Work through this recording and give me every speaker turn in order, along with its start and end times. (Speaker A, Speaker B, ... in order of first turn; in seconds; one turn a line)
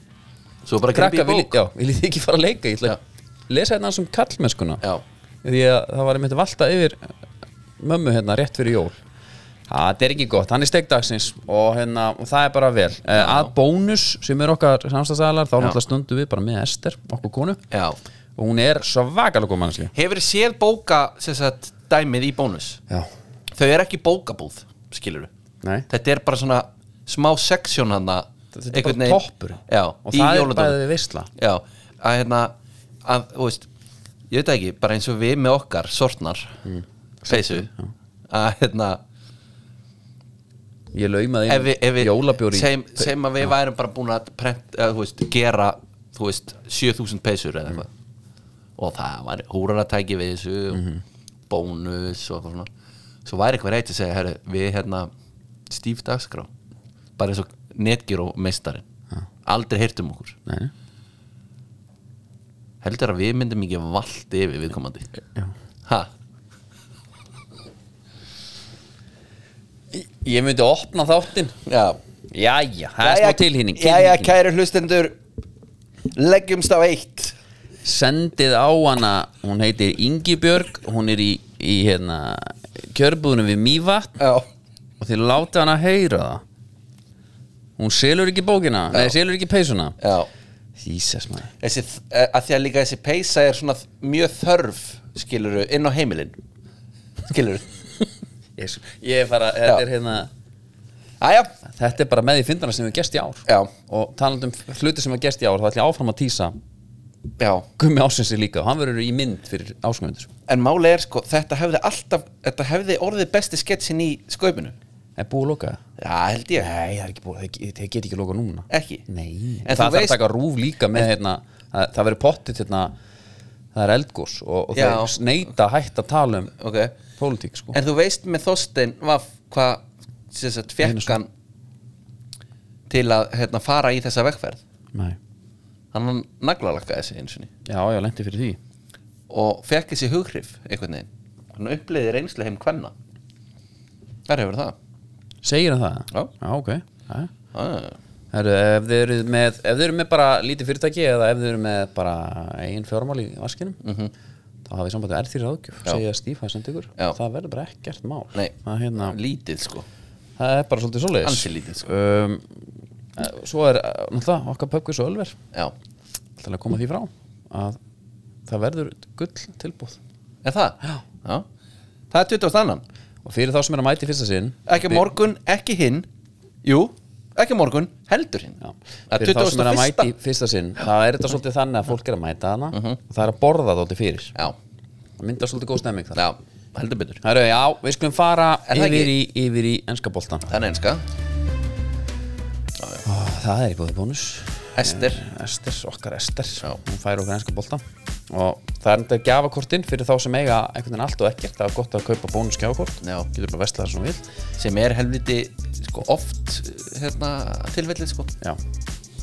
Speaker A: 0.6-1.6
Speaker B: 0.9-4.8
Speaker B: 5.4-7.1
Speaker B: 7.8-9.0
Speaker B: 9.7-17.6
Speaker A: 13.2-13.5
Speaker A: 17.7-18.0
Speaker B: 18.4-19.9
Speaker A: 19.9-22.8
Speaker A: 23.5-25.3
Speaker A: 25.9-30.8
Speaker B: 28.5-31.3
Speaker A: 31.4-33.7
Speaker A: 34.3-36.6
Speaker B: 36.6-37.9
Speaker A: 37.3-37.7
Speaker A: 38.3-39.0
Speaker B: 40.9-43.5
Speaker A: 41.5-47.9
Speaker A: 48.8-50.8
Speaker B: 50.7-51.0
Speaker A: 51.5-52.7
Speaker A: 53.2-55.1
Speaker A: 55.7-56.5
Speaker A: 57.2-58.8
Speaker A: 59.4-60.4
Speaker B: 60.5-60.7
Speaker A: 62.8-65.1
Speaker B: 69.9-71.5
Speaker A: 71.7-72.0
Speaker B: 72.3-74.3
Speaker A: 73.0-75.2
Speaker A: 76.1-77.3
Speaker B: 77.8-84.2
Speaker A: 84.2-84.5
Speaker B: 85.0-86.4
Speaker B: 87.8-90.0
Speaker A: 90.0-90.3
Speaker B: 90.8-91.5
Speaker A: 91.6-96.4
Speaker A: 97.2-97.7
Speaker B: 98.6-100.3
Speaker A: 101.2-101.5
Speaker B: 101.7-106.5
Speaker A: 103.5-103.7
Speaker A: 107.4-107.7
Speaker B: 107.8-110.3
Speaker A: 110.5-114.7
Speaker B: 115.2-115.8
Speaker A: 116.0-116.7
Speaker B: 116.6-122.9
Speaker A: 118.7-119.0
Speaker A: 119.6-120.2
Speaker B: 123.7-126.5
Speaker A: 124.7-125.2
Speaker A: 126.6-127.0
Speaker B: 127.2-127.8
Speaker A: 127.7-131.3
Speaker B: 130.8-131.2
Speaker A: 132.9-134.6
Speaker A: 135.9-137.5
Speaker B: 137.7-138.6
Speaker A: 139.3-142.9
Speaker A: 144.3-144.8
Speaker B: 145.4-147.3
Speaker A: 147.5-148.0
Speaker B: 148.3-153.8
Speaker A: 153.8-154.1
Speaker B: 154.7-159.2
Speaker A: 158.3-159.8
Speaker B: 160.4-162.4
Speaker A: 161.2-161.9
Speaker B: 163.2-165.3
Speaker B: 166.4-167.8
Speaker B: 168.5-170.0
Speaker A: 170.4-171.4
Speaker A: 172.1-172.8
Speaker B: 173.2-175.1
Speaker A: 174.7-176.1
Speaker A: 176.6-180.1
Speaker B: 178.6-184.4
Speaker A: 182.7-183.0
Speaker B: 185.2-186.2
Speaker A: 186.1-187.2
Speaker B: 187.2-190.5
Speaker A: 188.7-189.1
Speaker A: 190.5-191.0
Speaker A: 192.8-193.0
Speaker B: 193.0-204.2
Speaker A: 194.7-195.2
Speaker A: 203.0-203.3
Speaker A: 204.6-208.3